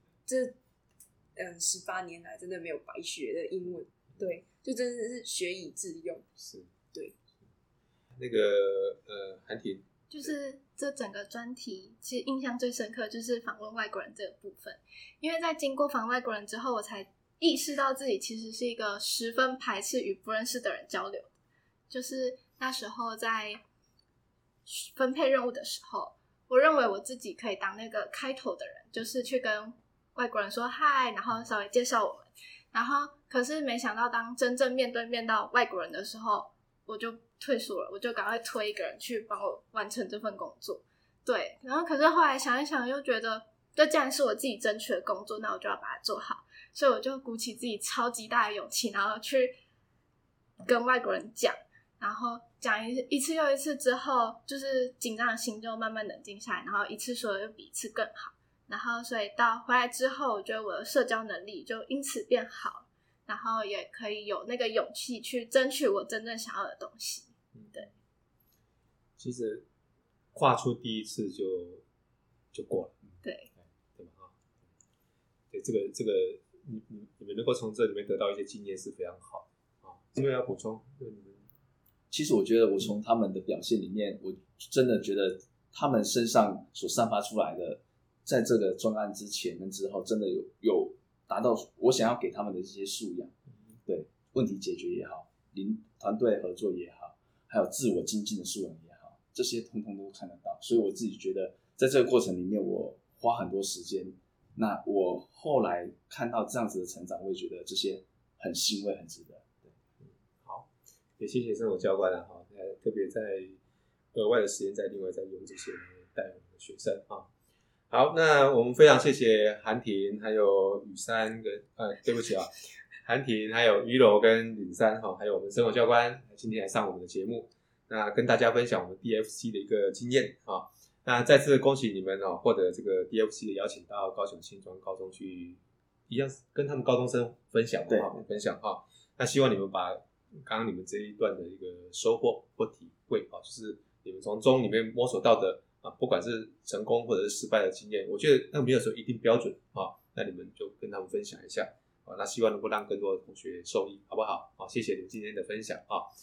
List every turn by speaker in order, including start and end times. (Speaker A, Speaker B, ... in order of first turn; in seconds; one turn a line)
Speaker A: 0.3-0.6
Speaker A: 1.4-6.3
Speaker B: 6.4-6.7
Speaker B: 8.2-10.3
Speaker C: 10.1-21.3
Speaker C: 21.9-23.6
Speaker C: 24.7-49.5
Speaker C: 50.6-67.9
Speaker B: 67.5-67.8
Speaker B: 69.2-69.7
Speaker B: 70.3-71.8
Speaker B: 72.5-72.9
Speaker C: 73.2-73.5
Speaker B: 74.0-74.3
Speaker B: 75.5-81.5
Speaker D: 82.1-93.3
Speaker D: 93.9-109.7
Speaker B: 110.0-113.6
Speaker B: 114.1-117.3
Speaker B: 117.9-122.5
Speaker B: 123.0-156.1
Speaker D: 137.9-138.1